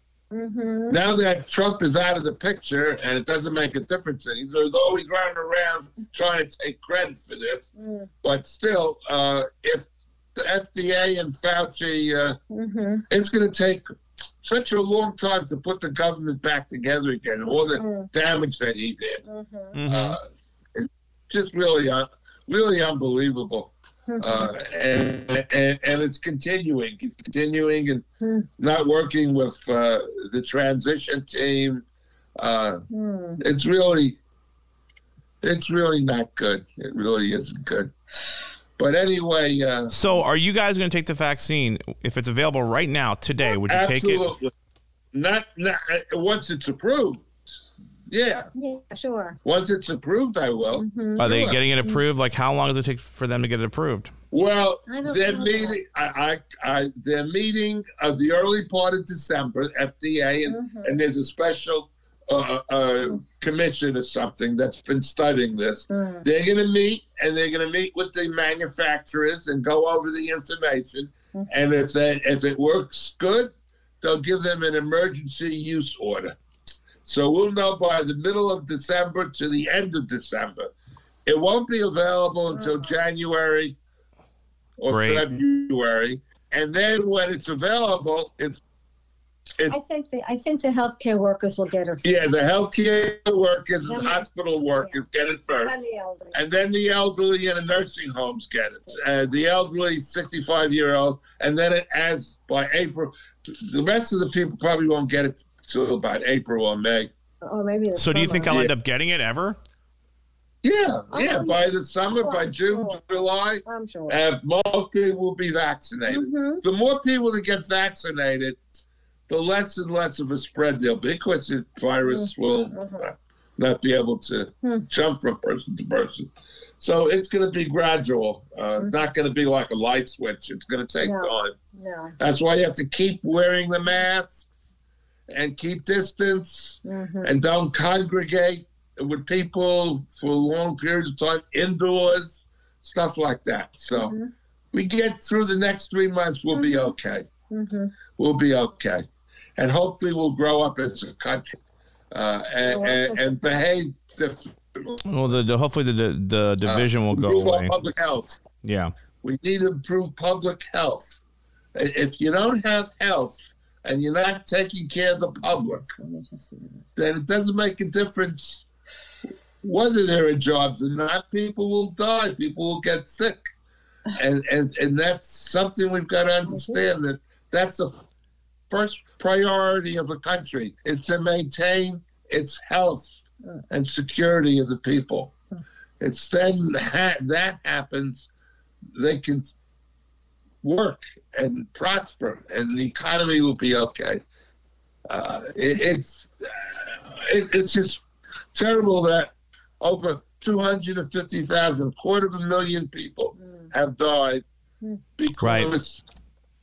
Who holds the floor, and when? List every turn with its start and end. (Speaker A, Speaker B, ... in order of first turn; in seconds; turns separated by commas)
Speaker A: 0.3-1.0, Speaker B: 0.9-7.7, Speaker A: 7.8-8.1, Speaker B: 8.2-12.4, Speaker A: 12.5-13.0, Speaker B: 13.1-13.8, Speaker B: 14.4-19.2, Speaker A: 17.8-18.1, Speaker A: 19.3-19.8, Speaker C: 19.7-20.2, Speaker B: 19.9-20.2, Speaker B: 20.8-28.0, Speaker A: 24.1-24.5, Speaker A: 28.2-28.5, Speaker B: 28.6-31.8, Speaker B: 32.4-32.9, Speaker A: 32.9-33.4, Speaker B: 33.4-34.1, Speaker B: 35.4-37.9, Speaker B: 38.8-39.9, Speaker C: 39.9-44.3, Speaker B: 43.6-44.5, Speaker B: 45.1-47.2, Speaker B: 48.1-48.5, Speaker A: 48.5-49.4, Speaker B: 49.5-51.6, Speaker A: 50.8-52.0, Speaker C: 51.2-54.1, Speaker B: 54.3-76.3, Speaker A: 54.9-55.8, Speaker A: 60.5-61.0, Speaker A: 65.9-66.2, Speaker B: 77.0-80.7, Speaker B: 81.3-83.8, Speaker A: 82.5-82.9, Speaker B: 84.8-88.6, Speaker C: 84.8-85.3, Speaker A: 89.7-92.1, Speaker B: 92.0-95.7, Speaker A: 93.9-94.2, Speaker A: 95.6-96.4, Speaker B: 96.3-107.1, Speaker A: 107.4-108.6, Speaker C: 108.0-109.6, Speaker B: 108.5-108.7, Speaker B: 110.6-118.6, Speaker A: 111.1-113.0, Speaker A: 113.7-114.2, Speaker A: 116.1-116.6, Speaker B: 119.3-131.6, Speaker A: 122.0-123.1, Speaker A: 131.0-132.1, Speaker B: 132.2-134.5, Speaker B: 135.3-144.2, Speaker A: 136.8-137.3, Speaker A: 143.9-144.3, Speaker B: 144.7-147.3, Speaker A: 146.5-146.9, Speaker A: 147.5-147.9, Speaker B: 148.2-149.0, Speaker B: 149.6-151.6, Speaker B: 152.1-155.1, Speaker A: 152.7-153.5, Speaker C: 155.1-157.8, Speaker B: 156.7-158.4, Speaker C: 158.6-158.9, Speaker B: 159.2-161.2, Speaker B: 161.8-165.9, Speaker A: 165.8-166.9, Speaker B: 167.0-168.7, Speaker B: 169.6-173.4, Speaker B: 174.2-178.1, Speaker A: 176.5-176.8, Speaker B: 178.7-183.2, Speaker B: 183.7-185.3, Speaker B: 186.0-188.3, Speaker B: 189.0-189.5, Speaker B: 190.6-194.2, Speaker B: 195.1-198.0, Speaker B: 198.5-204.4, Speaker B: 205.2-206.0, Speaker C: 205.4-205.7